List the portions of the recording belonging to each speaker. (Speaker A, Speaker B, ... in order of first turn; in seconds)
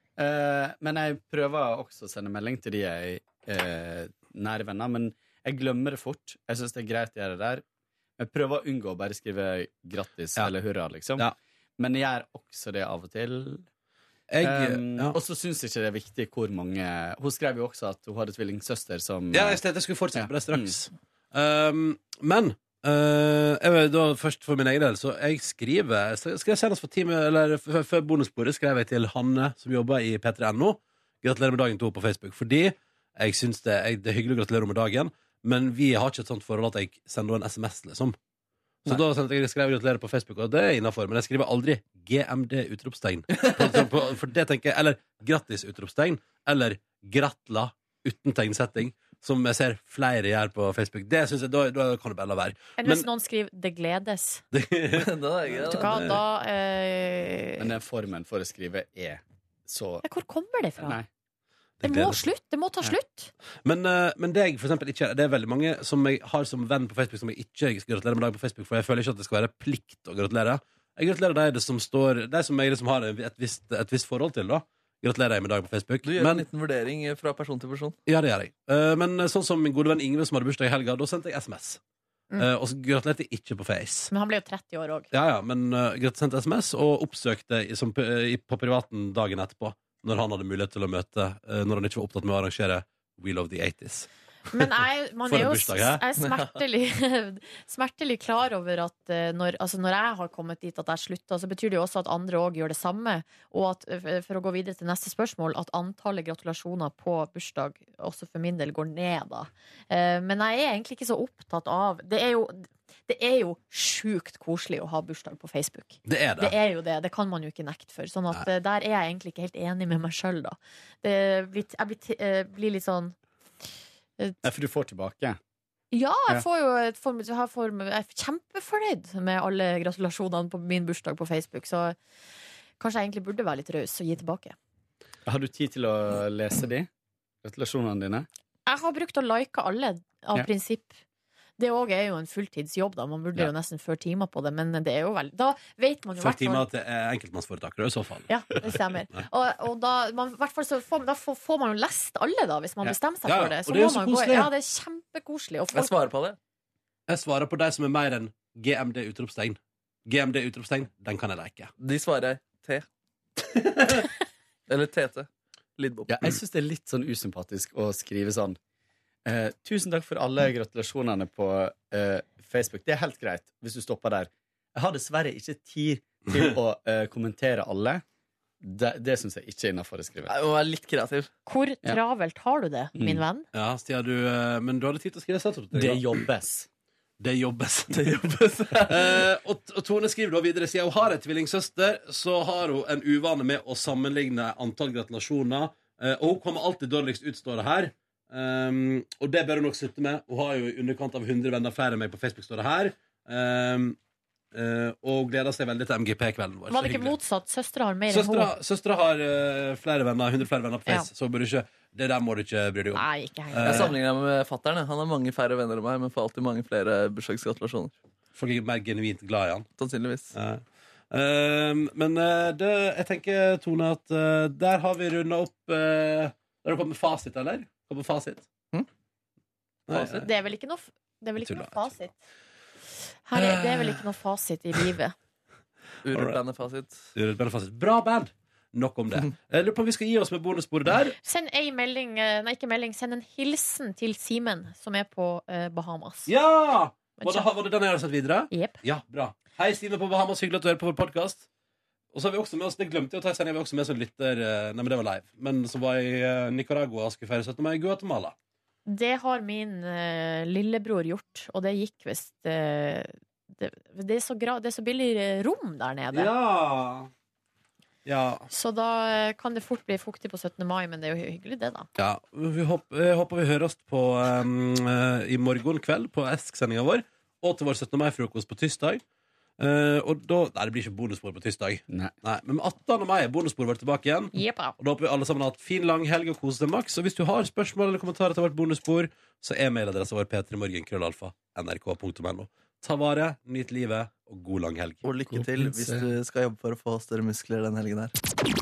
Speaker A: 0.2-7.6, 8.2-13.6, 14.4-19.6, 20.1-20.7, 57.6-60.0, 60.8-61.0, 124.4-125.4, 135.2-136.9, 137.4-138.3, 166.1-168.6, 169.2-178.0, 178.6-180.3, 182.9-183.2, 185.7-186.7, 295.3-296.1
Speaker B: 14.3-15.2, 19.3-38.1, 38.8-53.1, 54.5-55.1, 55.7-56.2, 61.8-62.2, 63.6-76.4, 78.1-81.8, 82.4-84.1, 85.1-94.1, 95.3-96.0, 116.0-116.5, 146.2-149.2, 153.2-154.5, 157.1-161.7, 163.6-164.0, 183.5-186.2, 187.2-188.1, 188.9-204.0, 204.5-207.1, 208.1-213.9, 218.3-219.7, 220.3-228.5, 229.9-230.3, 231.4-231.9, 233.3-234.0, 236.1-236.4, 237.1-241.2, 246.3-251.5, 252.1-258.3, 266.1-267.1, 268.0-268.5, 272.0-279.0, 279.6-295.0
Speaker C: 43.3-43.8, 55.0-55.9, 76.0-78.0, 96.2-96.6, 155.7-156.4, 161.8-162.8, 164.7-166.1, 180.3-181.3, 187.9-189.2, 213.6-217.9, 219.8-220.3, 229.9-230.2, 236.0-237.1, 295.0-298.1
Speaker D: 52.8-54.4, 55.5-57.7, 60.0-61.0, 61.8-63.3, 84.1-85.1, 94.5-123.2, 125.9-131.9, 132.8-134.6, 138.7-141.0, 141.6-146.6, 148.3-155.9, 181.5-183.4, 206.7-208.5, 212.9-213.9, 230.0-232.2, 233.2-235.1, 241.2-246.3, 247.2-247.5, 248.5-248.8, 258.9-266.3, 268.5-271.9, 284.3-284.7